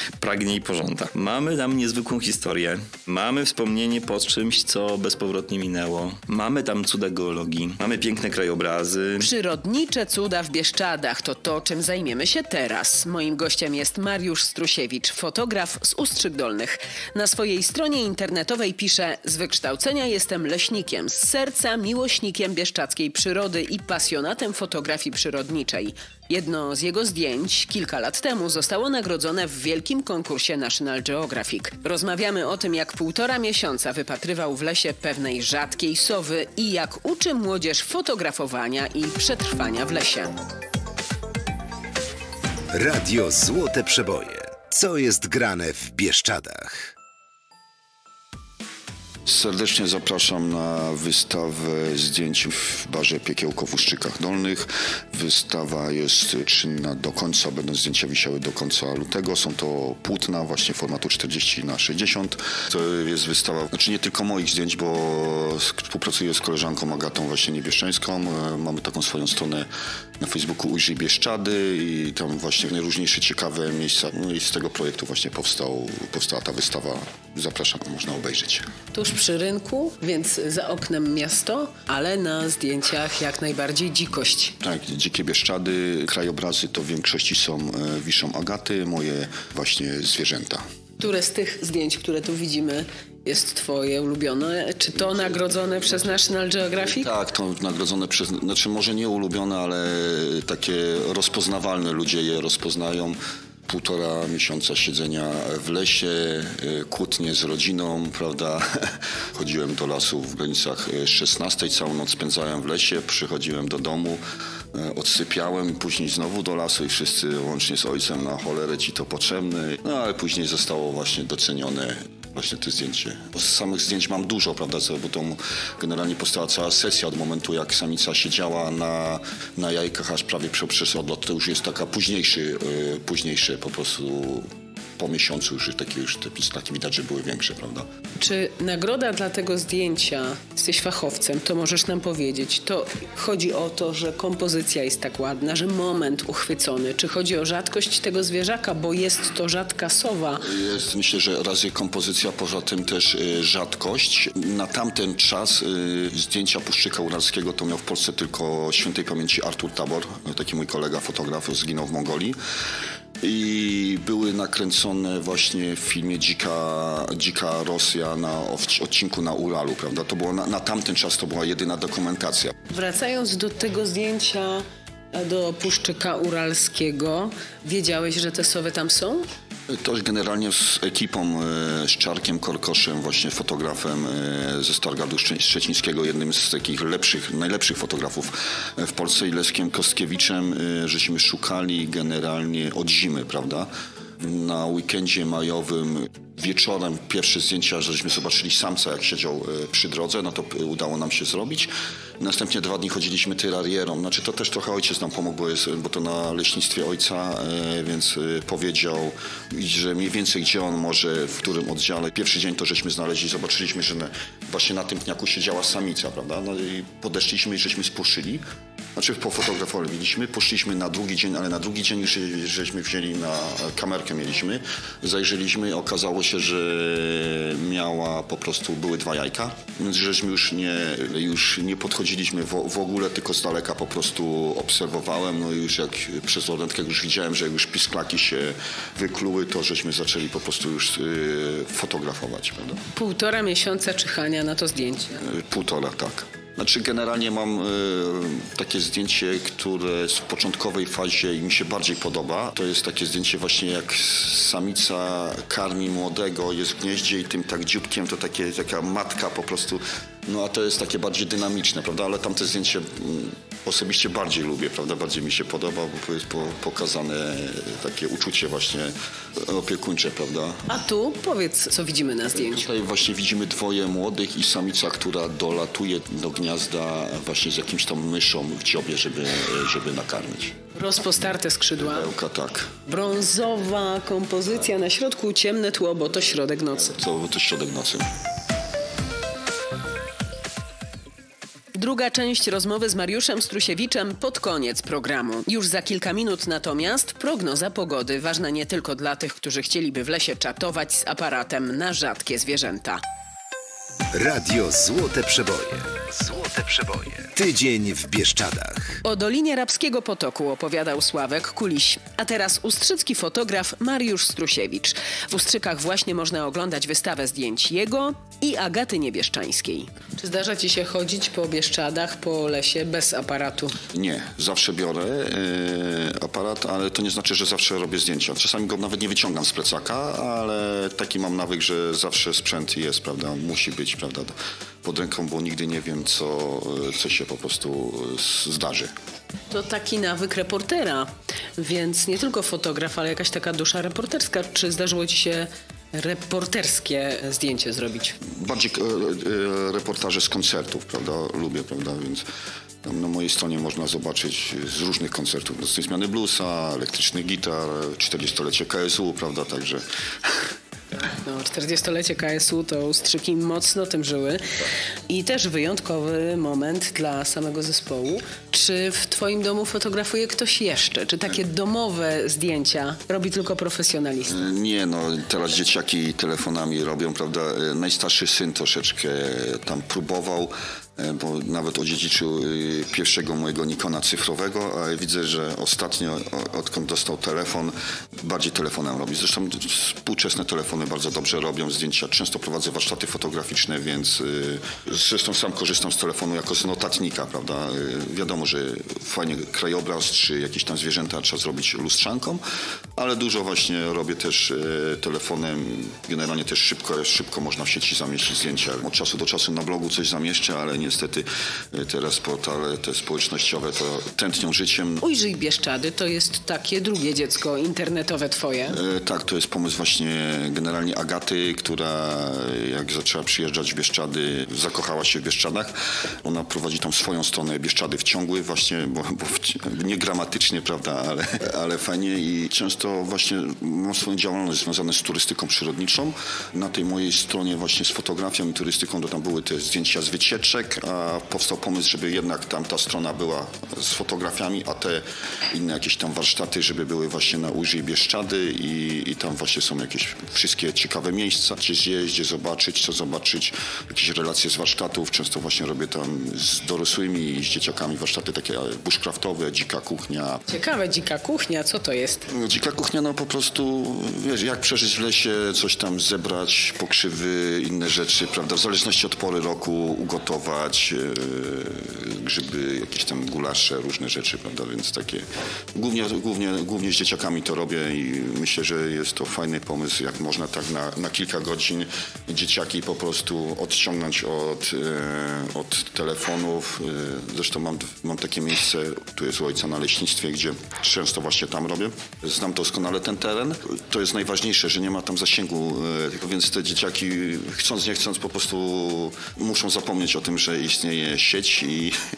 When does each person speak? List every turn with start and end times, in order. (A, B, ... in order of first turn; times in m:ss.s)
0:00.2-0:09.3 A
0:09.2-0:40.4 B
0:42.7-0:46.9 C
0:49.3-1:09.7 D
1:10.2-1:18.7 D
1:18.9-1:24.6 B
1:24.6-1:30.6 D
1:31.0-1:37.1 B
1:35.1-1:36.2 D
1:36.8-1:54.2 D
1:54.7-2:14.4 D
2:15.0-2:17.8 D
2:18.2-2:30.5 B
2:30.4-2:42.4 D
2:43.2-2:52.5 D
2:52.7-2:59.2 B
2:59.7-3:38.4 D
3:39.0-4:02.8 D
4:02.9-4:05.2 B
4:05.2-4:30.7 D
4:30.7-4:32.6 B
4:32.3-4:40.6 D
4:40.8-4:42.1 B
4:41.8-4:42.7 D
4:42.9-4:47.0 B
4:46.9-4:48.1 D
4:51.7-5:03.0 B
5:04.1-5:09.0 C
5:09.0-5:23.8 B
5:23.9-5:38.9 D
5:39.5-5:48.2 B
5:48.4-5:52.2 D
5:52.8-6:00.3 D
6:01.0-6:04.6 B
6:05.1-6:14.4 B
6:14.3-6:42.4 D
6:43.0-6:55.0 D
6:55.0-6:58.8 B
6:58.7-7:05.7 D
7:06.2-7:40.4 D
7:40.5-7:42.3 B
7:42.3-8:21.9 D